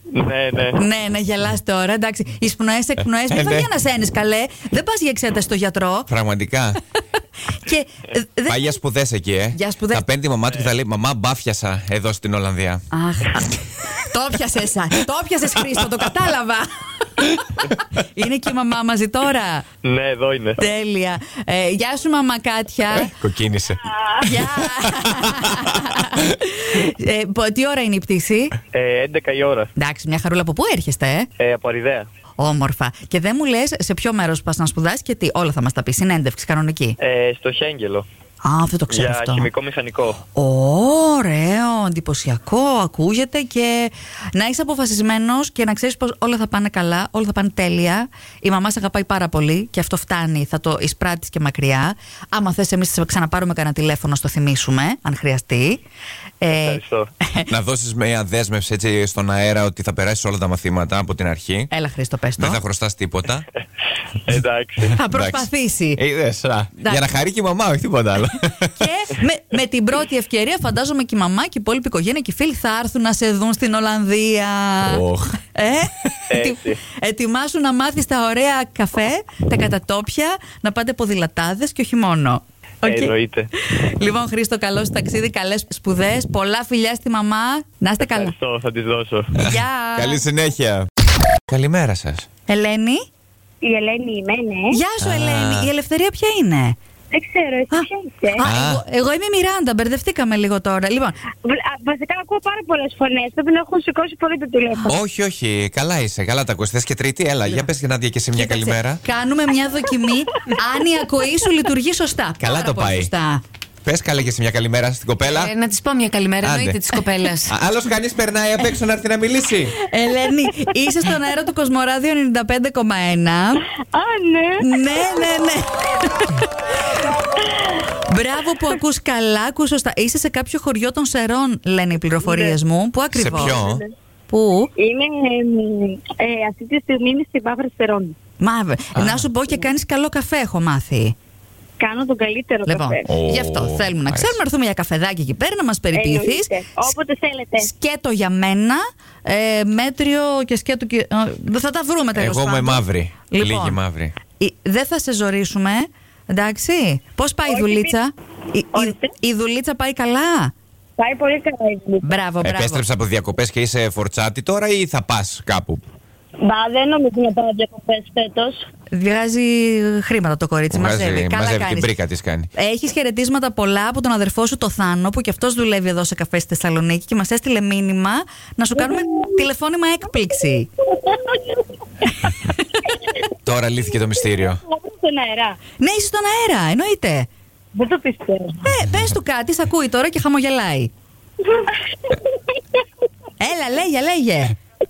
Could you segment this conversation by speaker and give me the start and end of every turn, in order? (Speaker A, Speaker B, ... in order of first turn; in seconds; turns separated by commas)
Speaker A: 0.1-0.8, Speaker B: 0.7-6.1, Speaker C: 3.3-3.7, Speaker C: 6.1-6.8, Speaker B: 7.6-8.8, Speaker C: 8.5-12.8, Speaker B: 9.5-10.1, Speaker B: 12.9-19.7, Speaker A: 19.8-20.6, Speaker B: 20.6-23.1, Speaker C: 22.9-26.3, Speaker B: 24.2-28.6, Speaker A: 28.8-29.7, Speaker B: 29.8-31.3, Speaker A: 31.4-32.0, Speaker B: 32.4-37.0, Speaker A: 37.0-38.0, Speaker B: 38.4-39.5, Speaker A: 39.6-40.1, Speaker B: 40.3-55.8, Speaker B: 56.4-57.5, Speaker C: 57.5-61.7, Speaker B: 61.7-62.6, Speaker C: 62.4-63.5, Speaker A: 64.4-64.8, Speaker B: 64.9-66.0, Speaker C: 65.0-68.9, Speaker B: 66.8-67.1, Speaker B: 68.7-88.3, Speaker C: 74.8-75.4, Speaker A: 83.1-83.5, Speaker A: 88.3-89.3, Speaker B: 89.3-90.2, Speaker C: 89.3-90.9, Speaker C: 91.5-92.2, Speaker B: 92.5-93.0, Speaker D: 93.6-94.8, Speaker B: 94.7-96.8, Speaker C: 95.0-95.7, Speaker D: 97.1-98.4, Speaker B: 97.7-101.2, Speaker C: 98.4-98.8, Speaker D: 101.4-104.9, Speaker C: 104.9-109.0, Speaker B: 108.3-113.4, Speaker C: 112.4-113.1, Speaker C: 113.8-115.5, Speaker E: 115.4-117.5, Speaker C: 116.4-119.8, Speaker B: 119.8-123.7, Speaker D: 123.9-125.3, Speaker B: 124.6-126.5, Speaker D: 127.4-127.8, Speaker B: 128.1-133.6, Speaker D: 132.2-132.6, Speaker C: 133.1-133.8, Speaker D: 133.3-133.9, Speaker B: 134.3-134.7, Speaker D: 134.8-138.1, Speaker B: 138.4-141.1, Speaker C: 138.9-139.2, Speaker D: 141.8-143.1, Speaker B: 142.7-146.9, Speaker C: 143.1-144.3, Speaker D: 145.9-147.7, Speaker B: 147.6-153.8, Speaker C: 152.1-154.1, Speaker B: 154.4-160.5, Speaker D: 157.5-157.9, Speaker D: 158.7-159.1, Speaker D: 161.0-162.1, Speaker B: 162.0-162.8, Speaker C: 162.4-165.8, Speaker D: 166.4-168.6, Speaker B: 168.9-171.9, Speaker C: 170.7-172.5, Speaker B: 172.5-180.7, Speaker D: 178.8-179.4, Speaker D: 180.9-181.6, Speaker B: 182.1-182.8, Speaker C: 183.4-184.6, Speaker D: 184.2-185.6, Speaker B: 185.8-187.3, Speaker D: 187.7-188.7, Speaker B: 188.6-190.9, Speaker D: 191.4-192.3, Speaker B: 193.4-194.6